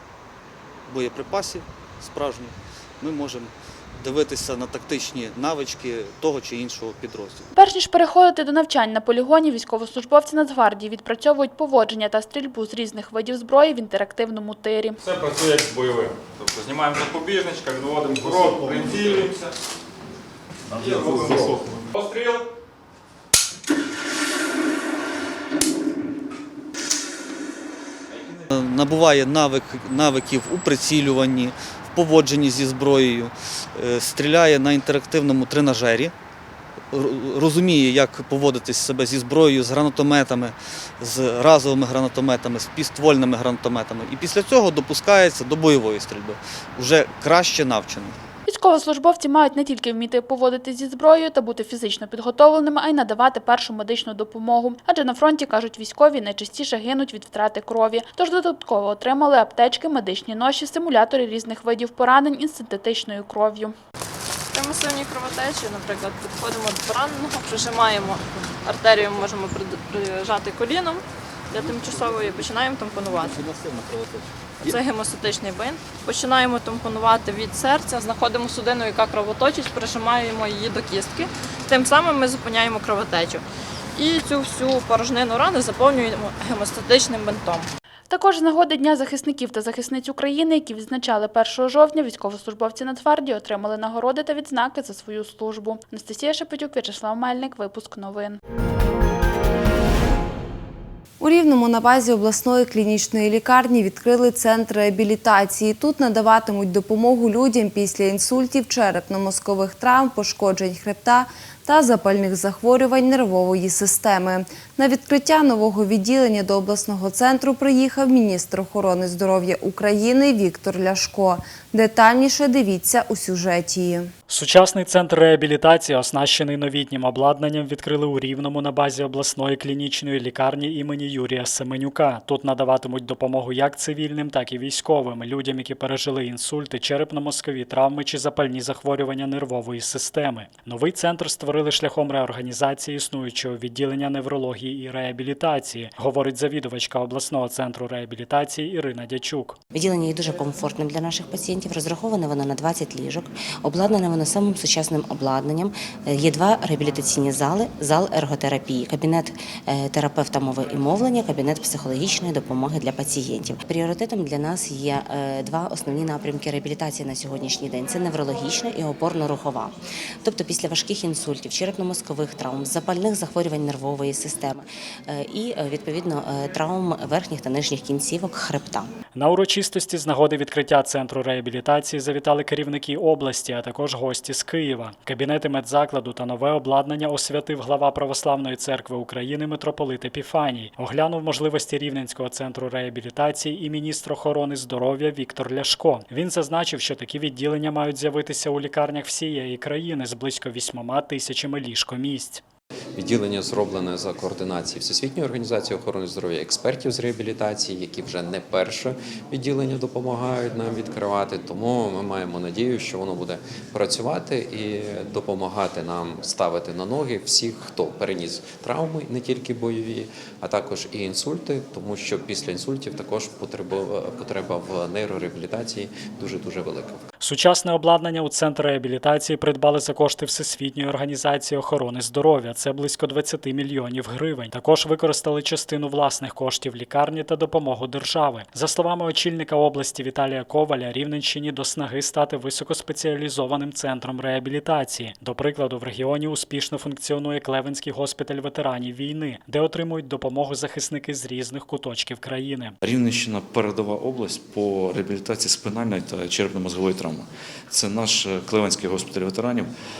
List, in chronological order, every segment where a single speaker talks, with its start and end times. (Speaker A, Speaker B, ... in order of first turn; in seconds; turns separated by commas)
Speaker A: 0.9-7.5, Speaker B: 7.5-15.0, Speaker C: 15.0-19.4, Speaker C: 20.8-22.4, Speaker A: 28.5-36.1, Speaker A: 36.9-48.2, Speaker B: 48.5-63.7, Speaker D: 64.5-73.5, Speaker D: 74.6-83.4, Speaker D: 83.9-87.7, Speaker B: 88.1-98.4, Speaker E: 101.2-124.1, Speaker F: 124.3-149.6, Speaker G: 149.7-178.9, Speaker F: 179.2-202.4, Speaker H: 203.0-227.0, Speaker F: 227.2-252.7, Speaker I: 252.8-259.7